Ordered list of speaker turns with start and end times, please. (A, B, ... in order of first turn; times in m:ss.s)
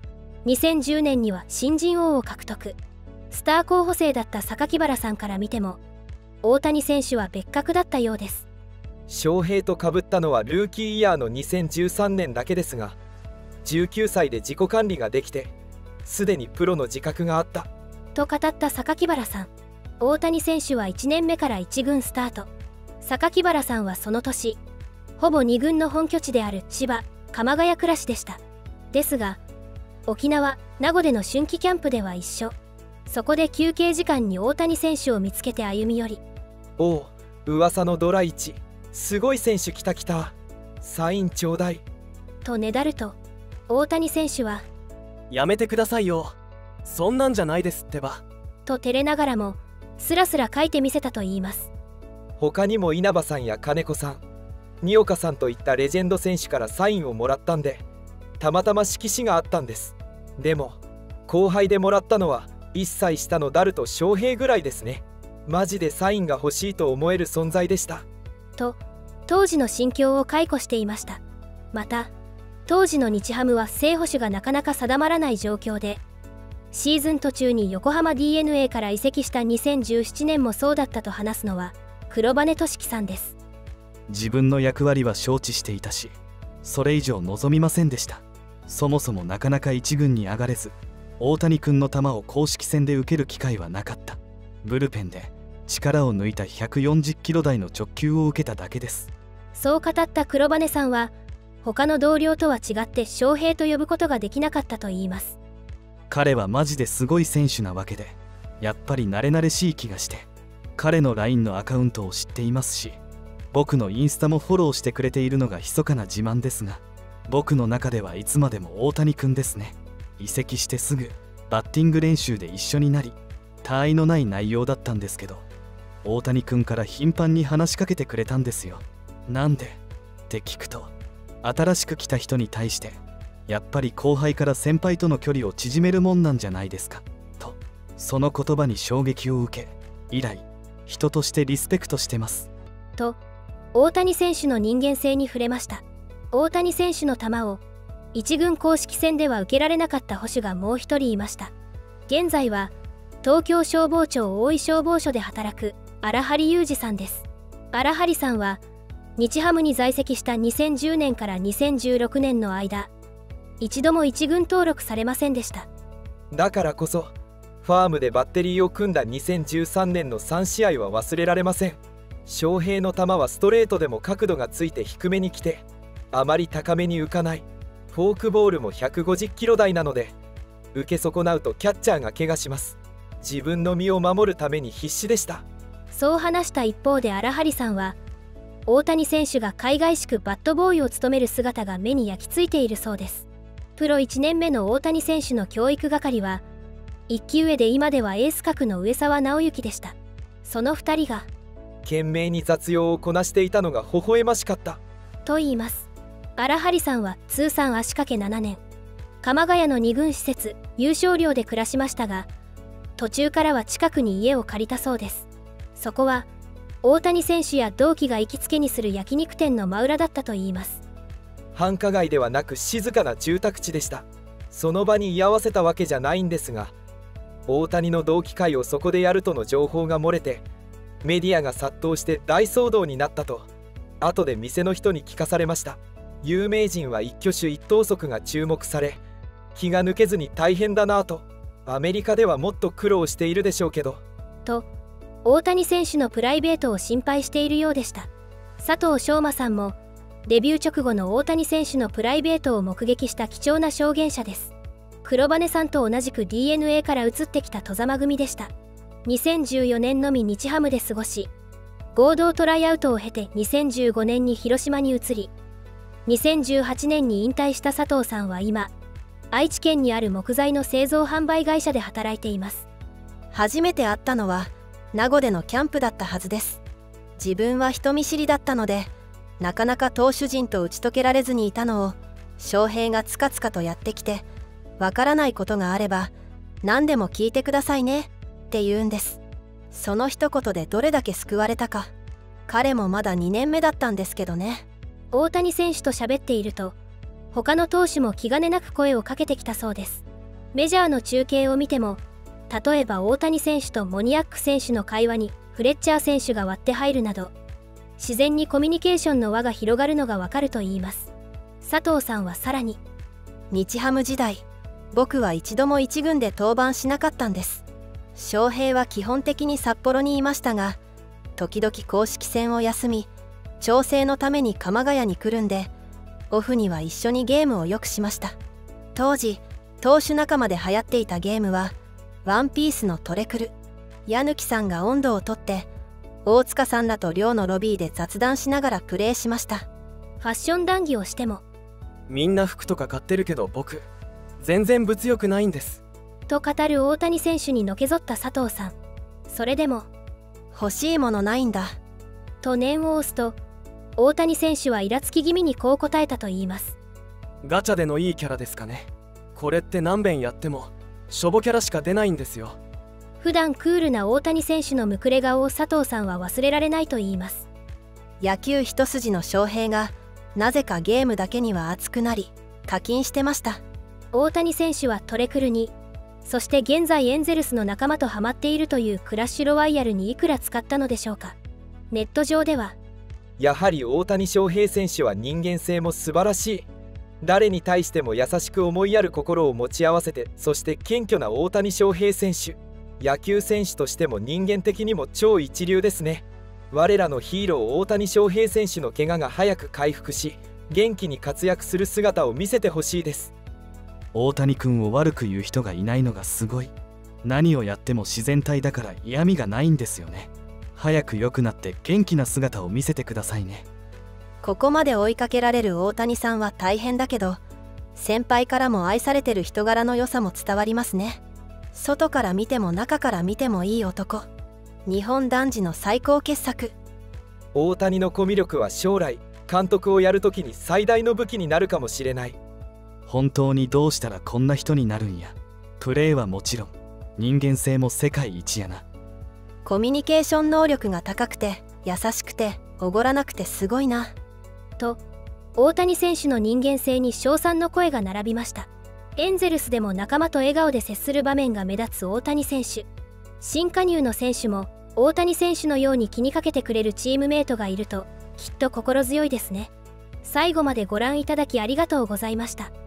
0:00.4-0:02.8 A
0:03.3-0:05.8 A
0:06.4-0:08.4 A
0:09.1-0:13.0 B
0:13.6-0:15.5 B
0:16.0-0:17.7 B
0:18.1-0:22.5 A
0:23.0-0:24.6 A
0:25.2-0:28.4 A
0:28.9-0:29.4 A
0:30.1-0:32.6 A
0:33.1-0:36.2 A
0:36.8-0:41.8 B
0:42.4-0:43.2 A
0:43.7-0:44.6 A
0:45.3-0:48.2 C
0:48.6-0:51.7 A
0:52.4-0:54.2 B
0:54.8-0:57.8 B
0:58.4-1:08.0 B
1:08.6-1:11.2 A
1:11.7-1:12.1 A
1:12.6-1:16.0 A
1:16.7-1:23.4 A
1:24.1-1:26.1 D
1:26.6-1:39.1 D
1:39.5-1:41.1 A
1:41.6-1:45.4 A
1:46.1-1:50.2 D
1:50.8-1:53.0 D
1:53.5-2:05.4 D
2:06.0-2:09.8 D
2:10.3-2:10.9 D
2:11.4-2:22.5 D
2:23.7-2:27.6 A
2:28.1-2:31.5 A
2:32.1-2:38.6 A
2:39.2-2:42.9 A
2:43.6-2:45.7 A
2:46.3-2:47.1 B
2:47.6-3:00.1 B
3:00.7-3:05.4 B
3:05.9-3:08.0 A
3:08.7-3:13.2 A
3:13.8-3:16.4 A
3:17.1-3:21.3 A
3:21.8-3:24.8 B
3:25.2-3:28.6 A
3:29.2-3:32.3 A
3:33.0-3:36.3 A
3:36.8-3:40.8 A
3:41.5-3:46.7 B
3:47.5-3:50.4 B
3:51.0-3:53.5 B
3:54.0-3:59.0 B
3:59.5-4:04.0 B
4:05.2-4:14.5 A
4:15.0-4:18.5 A
4:19.0-4:21.3 A
4:21.9-4:25.3 A
4:26.0-4:28.7 A
4:29.3-4:32.7 A
4:33.3-4:36.6 E
4:37.2-4:44.2 E
4:44.8-4:49.2 E
4:49.7-4:51.9 E
4:52.5-4:54.6 E
4:55.1-4:56.8 A
4:57.3-5:07.3 A
5:08.0-5:12.8 A
5:13.5-5:17.6 E
5:18.1-5:20.8 E
5:21.4-5:25.7 E
5:26.3-5:28.4 E
5:28.9-5:33.5 E
5:34.1-5:35.7 E
5:36.2-5:39.7 E
5:40.2-5:41.4 A
5:42.1-5:43.8 C
5:44.4-5:45.8 C
5:46.3-5:48.7 A
5:49.3-5:49.9 A
5:50.5-5:51.8 E
5:52.4-5:53.4 A
5:54.0-5:56.8 A
5:57.4-6:02.6 C
6:03.2-6:07.5 A
6:08.2-6:13.6 E
6:14.1-6:21.4 A
6:21.9-6:22.8 A
6:23.4-6:26.7 B
6:27.2-6:43.3 B
6:44.1-6:46.7 D
6:47.2-6:53.6 D
6:54.4-6:57.4 E
6:58.0-7:01.2 E
7:01.7-7:04.3 E
7:04.8-7:06.7 E
7:07.5-7:12.4 B
7:13.1-7:18.8 D
7:19.6-7:24.1 E
7:25.6-7:32.9 A
7:33.4-7:39.7 A
7:40.2-7:42.7 A